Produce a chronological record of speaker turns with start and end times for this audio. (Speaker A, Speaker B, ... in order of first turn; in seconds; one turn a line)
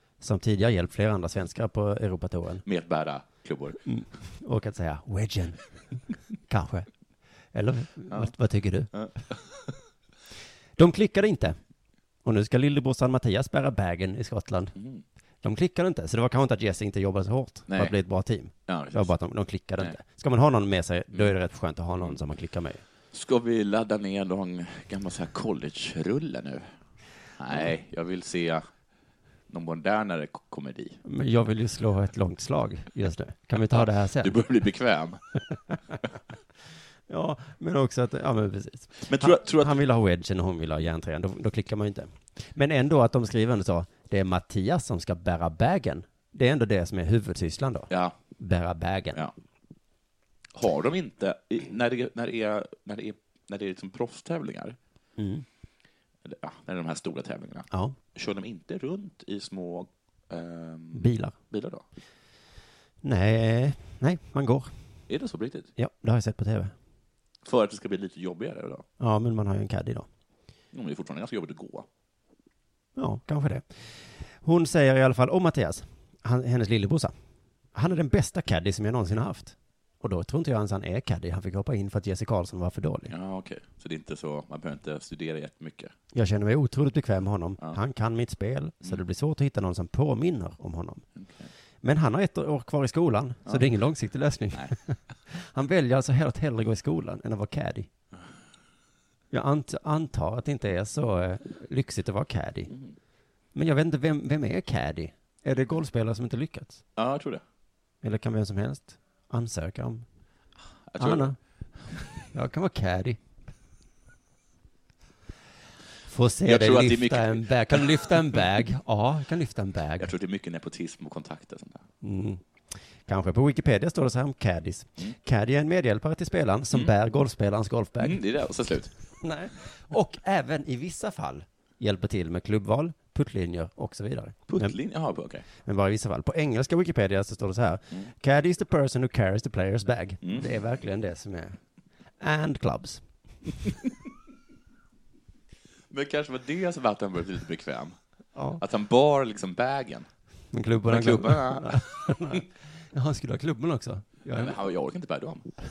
Speaker A: 0.2-2.6
Speaker B: 2.6-3.8
Speaker A: 3.9-5.6
Speaker A: 6.5-6.9
Speaker A: 7.5-8.9
Speaker B: 8.9-9.7
Speaker A: 10.8-11.6
Speaker A: 12.2-14.7
Speaker B: 14.8-15.0
Speaker A: 15.4-22.8
Speaker B: 17.7-17.9
Speaker B: 18.7-19.1
Speaker B: 23.1-26.7
Speaker B: 27.4-28.6
Speaker B: 29.5-31.0
Speaker A: 31.0-34.4
Speaker B: 33.7-35.2
Speaker A: 37.1-49.2
Speaker B: 39.0-39.8
Speaker B: 50.5-54.8
Speaker A: 55.2-55.4
Speaker B: 56.2-61.8
Speaker A: 57.7-58.0
Speaker A: 60.9-61.3
Speaker A: 63.0-64.7
Speaker B: 65.1-65.7
Speaker A: 65.8-66.7
Speaker B: 67.4-68.8
Speaker A: 69.0-70.1
Speaker B: 70.7-71.8
Speaker A: 73.0-77.1
Speaker A: 77.7-83.1
Speaker B: 83.1-85.9
Speaker A: 86.1-91.0
Speaker B: 91.2-91.5
Speaker A: 91.8-97.9
Speaker A: 99.3-102.7
Speaker A: 103.5-106.8
Speaker B: 107.0-107.4
Speaker A: 108.0-110.0
Speaker B: 110.9-111.3
Speaker A: 111.0-111.4
Speaker A: 112.3-113.2
Speaker A: 116.1-120.1
Speaker B: 116.4-118.1
Speaker B: 120.0-121.8
Speaker A: 122.0-122.4
Speaker A: 123.0-128.2
Speaker B: 128.0-128.9
Speaker A: 129.2-134.7
Speaker B: 134.5-135.4
Speaker A: 135.6-141.6
Speaker B: 140.2-140.5
Speaker A: 142.2-143.0
Speaker B: 145.9-147.9
Speaker A: 148.3-148.6
Speaker B: 148.6-150.1
Speaker A: 150.5-154.6
Speaker B: 150.9-152.4
Speaker B: 154.3-155.5